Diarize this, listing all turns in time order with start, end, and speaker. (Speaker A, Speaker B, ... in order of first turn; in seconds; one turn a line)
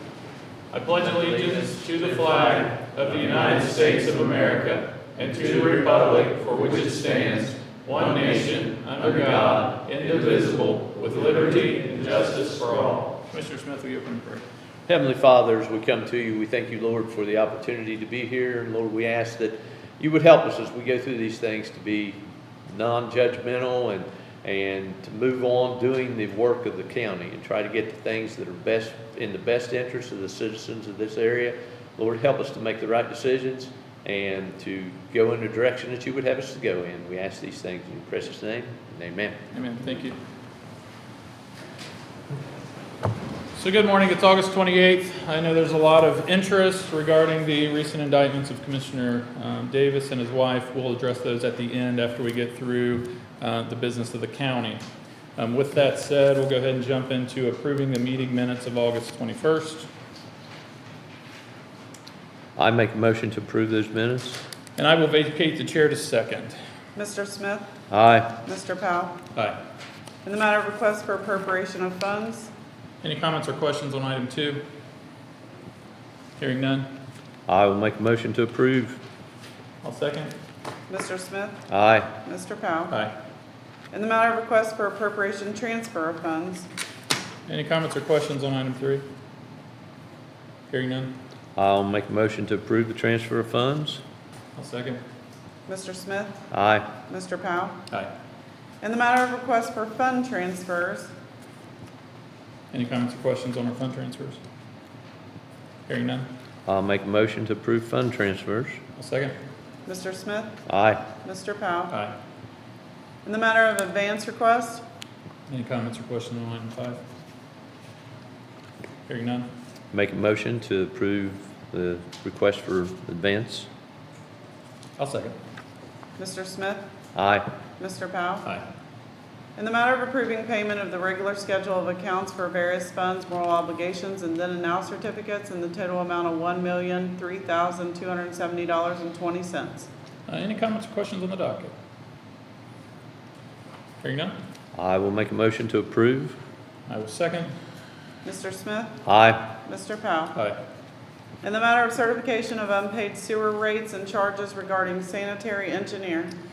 Speaker A: 0.7-14.4
Speaker B: 14.9-39.4
Speaker A: 39.5-40.2
Speaker A: 43.5-54.8
Speaker A: 55.4-59.9
Speaker B: 62.6-64.4
Speaker A: 64.8-66.5
Speaker C: 67.0-67.7
Speaker B: 67.9-68.3
Speaker C: 68.4-69.2
Speaker C: 70.2-72.5
Speaker A: 73.0-74.6
Speaker A: 76.4-76.9
Speaker B: 77.5-79.0
Speaker A: 79.8-80.3
Speaker C: 80.9-81.6
Speaker B: 81.7-82.1
Speaker C: 82.1-83.0
Speaker C: 83.9-86.7
Speaker A: 87.5-89.0
Speaker A: 90.7-91.1
Speaker B: 91.5-94.0
Speaker A: 94.5-95.0
Speaker C: 95.7-96.4
Speaker B: 96.5-96.9
Speaker C: 97.0-97.8
Speaker C: 98.8-101.1
Speaker A: 102.7-104.4
Speaker A: 105.9-106.3
Speaker B: 106.7-108.8
Speaker A: 109.0-109.3
Speaker C: 109.8-110.6
Speaker B: 110.7-111.0
Speaker C: 111.2-112.0
Speaker C: 113.2-114.8
Speaker A: 115.5-117.0
Speaker A: 119.1-119.5
Speaker B: 119.9-123.7
Speaker A: 125.0-125.3
Speaker C: 126.2-126.9
Speaker B: 127.1-127.5
Speaker C: 127.8-128.5
Speaker C: 129.6-139.9
Speaker A: 140.3-141.7
Speaker A: 144.0-144.3
Speaker B: 144.7-146.4
Speaker A: 146.9-147.5
Speaker C: 148.2-149.0
Speaker B: 149.0-149.4
Speaker C: 149.6-150.3
Speaker C: 151.4-156.3